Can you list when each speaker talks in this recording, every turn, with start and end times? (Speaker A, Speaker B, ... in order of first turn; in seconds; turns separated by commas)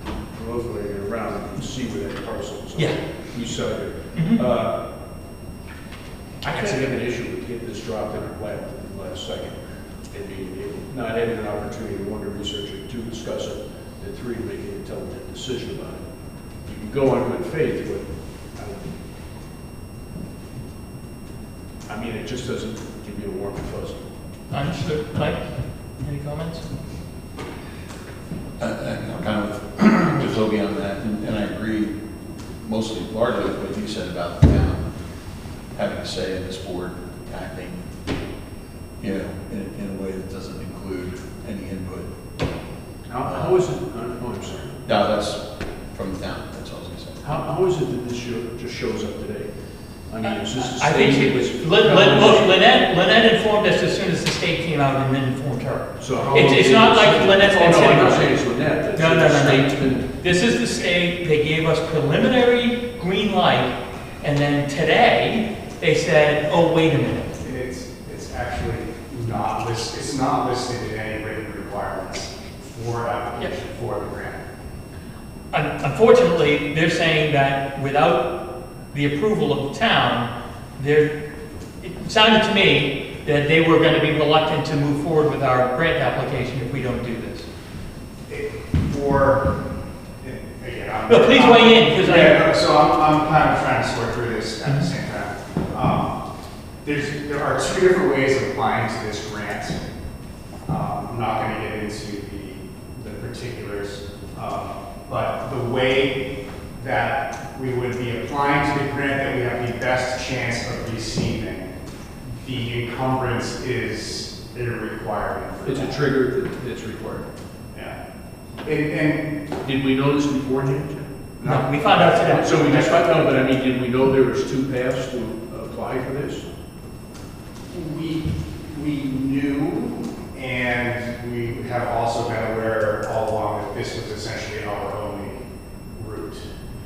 Speaker A: 0.3-4.8, Speaker B: 4.1-4.4, Speaker A: 6.4-16.0, Speaker A: 16.6-18.9, Speaker A: 21.9-24.1, Speaker B: 24.5-25.4, Speaker B: 26.0-26.6, Speaker C: 28.6-32.0, Speaker C: 32.6-34.9, Speaker C: 35.7-37.9, Speaker C: 39.0-42.1, Speaker A: 43.1-44.8, Speaker C: 43.2-43.5, Speaker C: 44.9-47.2, Speaker A: 47.2-49.5, Speaker A: 50.1-52.6, Speaker B: 50.2-58.3, Speaker A: 56.0-60.1, Speaker B: 59.0-67.3, Speaker D: 67.4-74.5, Speaker B: 75.5-78.4, Speaker B: 78.9-81.1, Speaker B: 81.8-87.5, Speaker D: 88.3-89.6, Speaker D: 90.2-96.2, Speaker B: 91.1-92.4, Speaker D: 96.8-99.8, Speaker D: 100.7-111.7, Speaker D: 112.4-116.0, Speaker A: 115.7-117.3, Speaker D: 118.6-119.4, Speaker A: 119.6-121.1, Speaker D: 121.4-123.0, Speaker B: 121.4-122.5, Speaker A: 122.0-126.5, Speaker D: 127.7-136.5